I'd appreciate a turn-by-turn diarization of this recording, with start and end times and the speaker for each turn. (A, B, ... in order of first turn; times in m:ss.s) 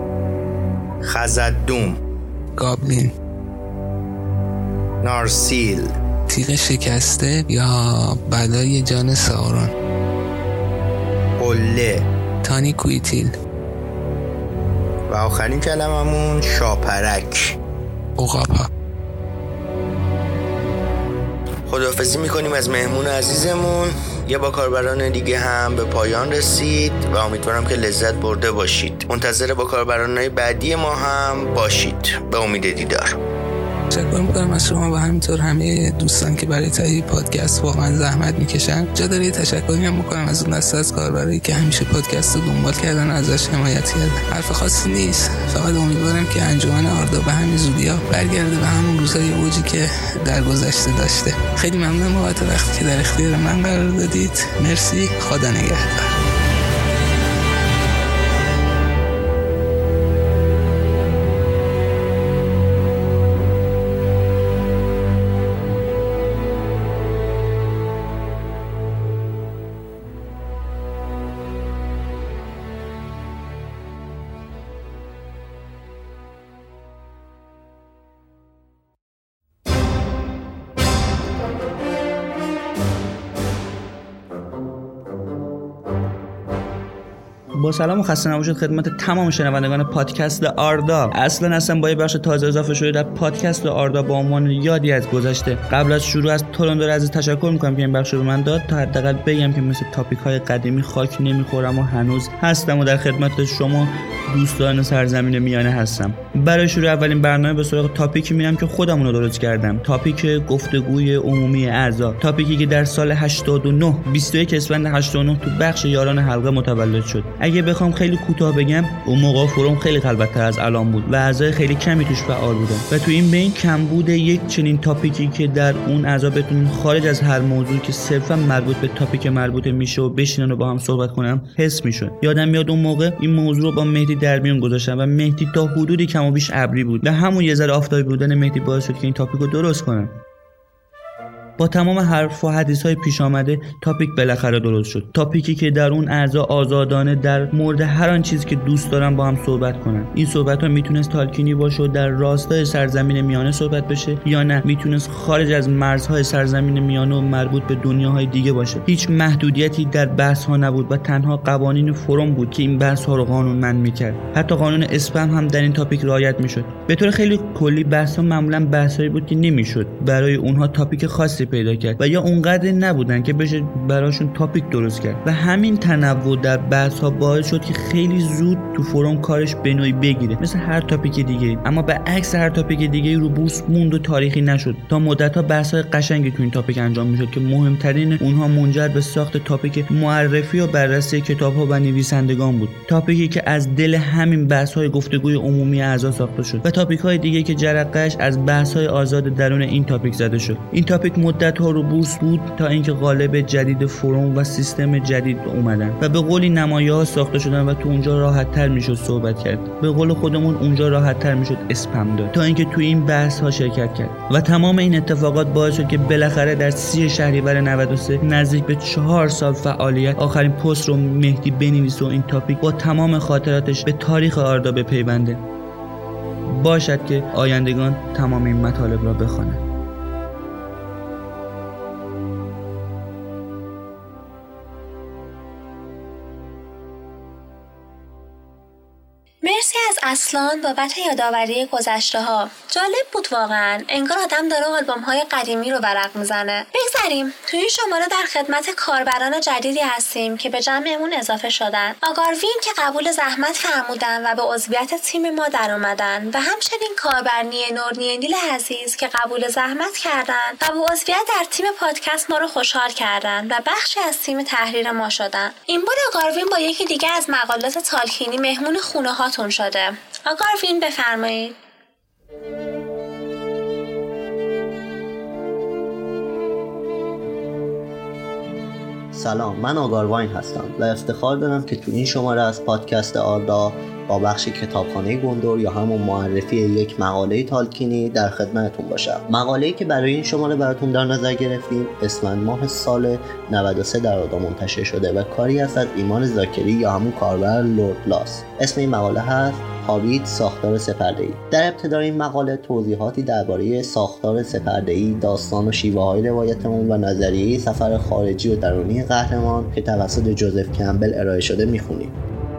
0:01.0-0:02.0 A
0:02.6-0:03.1 B
0:05.0-0:05.9 A
0:06.3-0:09.7 B
0:11.4-0:12.0 A
0:12.4-0:13.3 B
0:15.1-0:17.5 A
0:18.2-0:18.7 B
0:21.7-0:33.2 A
0:33.9-0:56.1 B
1:27.6-2:20.2 C
2:21.6-3:45.4 C
3:46.6-3:49.6 C
3:59.4-4:31.6 D
4:39.1-5:12.1 E